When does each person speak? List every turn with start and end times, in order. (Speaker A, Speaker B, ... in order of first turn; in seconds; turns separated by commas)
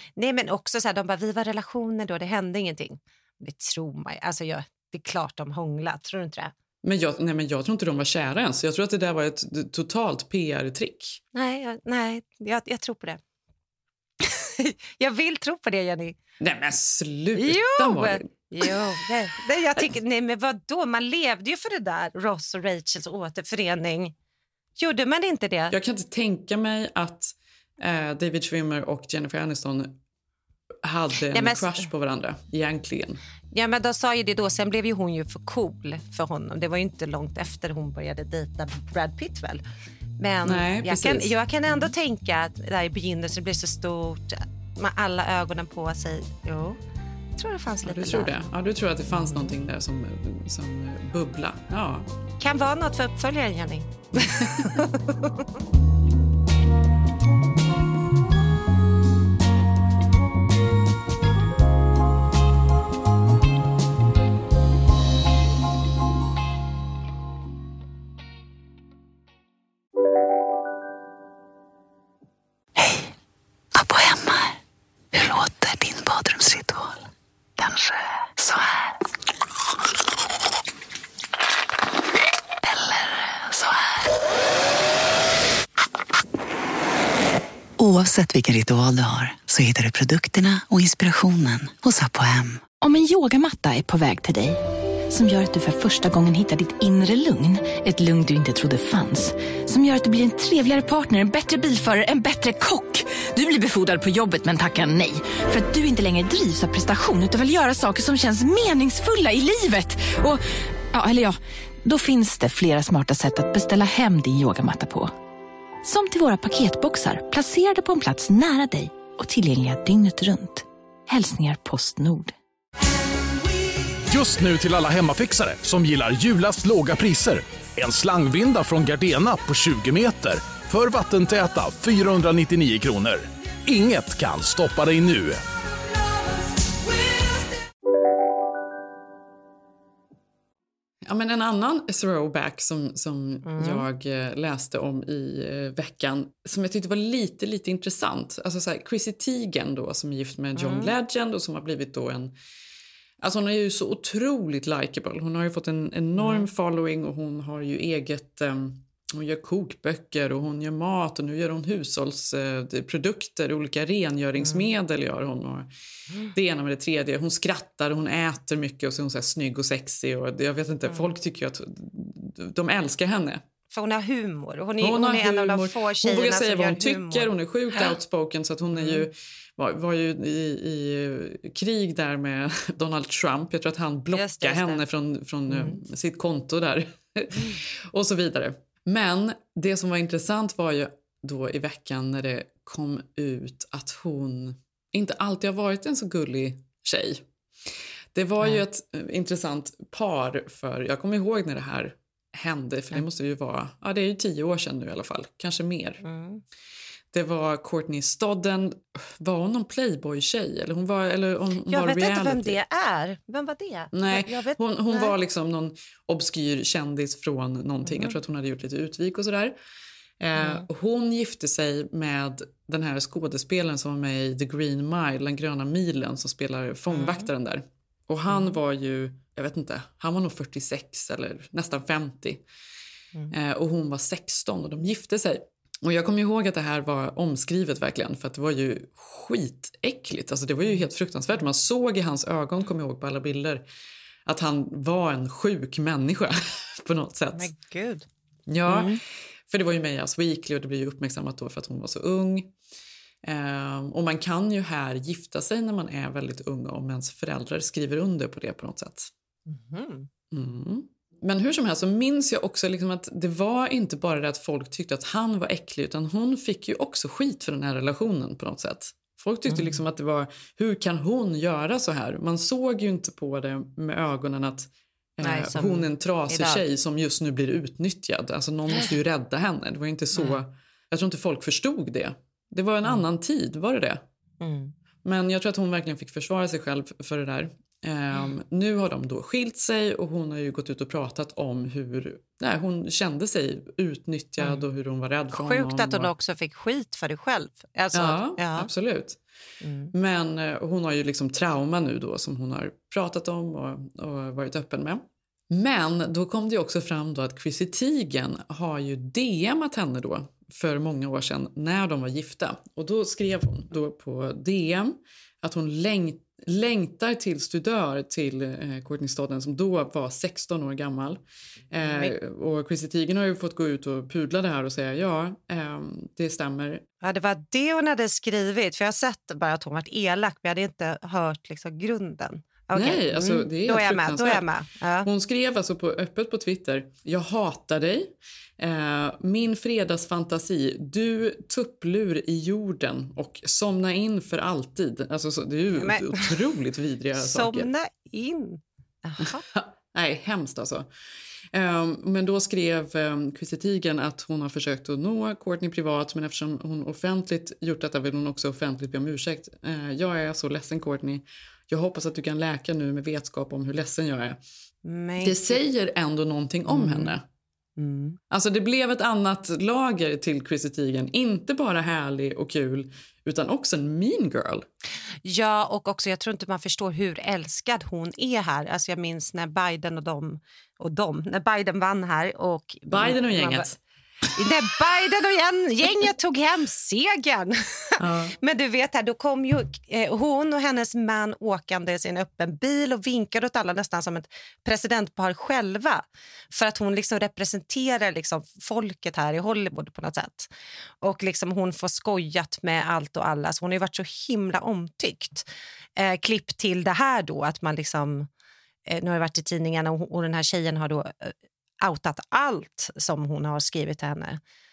Speaker A: 0.2-6.5, Speaker B: 6.8-11.2, Speaker A: 11.3-13.2, Speaker A: 14.2-16.2, Speaker B: 16.4-18.7, Speaker A: 17.4-24.1, Speaker A: 24.8-25.7, Speaker B: 25.7-30.0, Speaker B: 30.8-33.2, Speaker A: 31.3-31.9, Speaker A: 33.5-39.6, Speaker A: 40.2-46.8, Speaker B: 40.4-41.9, Speaker A: 47.4-48.3, Speaker B: 47.8-52.1, Speaker A: 49.2-49.5, Speaker A: 52.4-55.4, Speaker B: 54.1-54.8, Speaker C: 72.8-73.1, Speaker C: 73.7-74.6, Speaker C: 75.1-76.9, Speaker C: 77.6-78.9, Speaker C: 82.6-84.0, Speaker C: 87.8-92.6, Speaker D: 92.8-115.1, Speaker D: 115.8-122.3, Speaker E: 124.1-135.4, Speaker B: 141.0-152.3, Speaker A: 143.4-143.8, Speaker A: 150.6-150.9, Speaker B: 153.2-165.7, Speaker A: 156.2-156.5, Speaker A: 164.4-164.7, Speaker B: 166.3-173.4, Speaker A: 173.7-177.3, Speaker B: 174.8-197.2, Speaker A: 178.7-179.1, Speaker A: 184.1-184.8, Speaker A: 185.5-185.8, Speaker B: 198.1-206.0, Speaker A: 206.0-206.4, Speaker B: 207.1-212.6, Speaker A: 211.7-215.1, Speaker B: 213.9-219.5, Speaker A: 217.8-218.2, Speaker B: 220.2-232.4, Speaker A: 220.4-220.7, Speaker A: 226.9-227.3, Speaker A: 228.3-228.6, Speaker B: 233.3-243.6, Speaker B: 244.2-247.5, Speaker A: 247.3-248.1, Speaker B: 248.5-252.5, Speaker A: 248.7-249.0, Speaker B: 253.2-259.1, Speaker A: 259.5-260.1, Speaker B: 260.3-284.0, Speaker A: 269.5-269.8, Speaker A: 275.2-276.6, Speaker A: 280.1-280.4, Speaker A: 284.4-284.7, Speaker B: 285.0-296.1, Speaker A: 295.3-298.7, Speaker B: 297.9-299.2, Speaker A: 299.6-299.9, Speaker B: 299.9-326.8, Speaker A: 321.8-322.1, Speaker A: 327.0-335.1, Speaker B: 332.7-334.4, Speaker B: 335.0-347.7, Speaker A: 345.8-346.3, Speaker A: 347.1-349.4, Speaker B: 349.2-350.9, Speaker B: 351.5-364.4, Speaker A: 364.8-365.6, Speaker B: 365.2-367.2, Speaker A: 366.7-367.2, Speaker A: 367.8-368.2, Speaker B: 368.3-374.6, Speaker A: 375.2-383.6, Speaker B: 382.9-383.8, Speaker A: 384.3-400.5, Speaker B: 388.0-388.3, Speaker A: 401.0-408.3, Speaker A: 408.9-414.4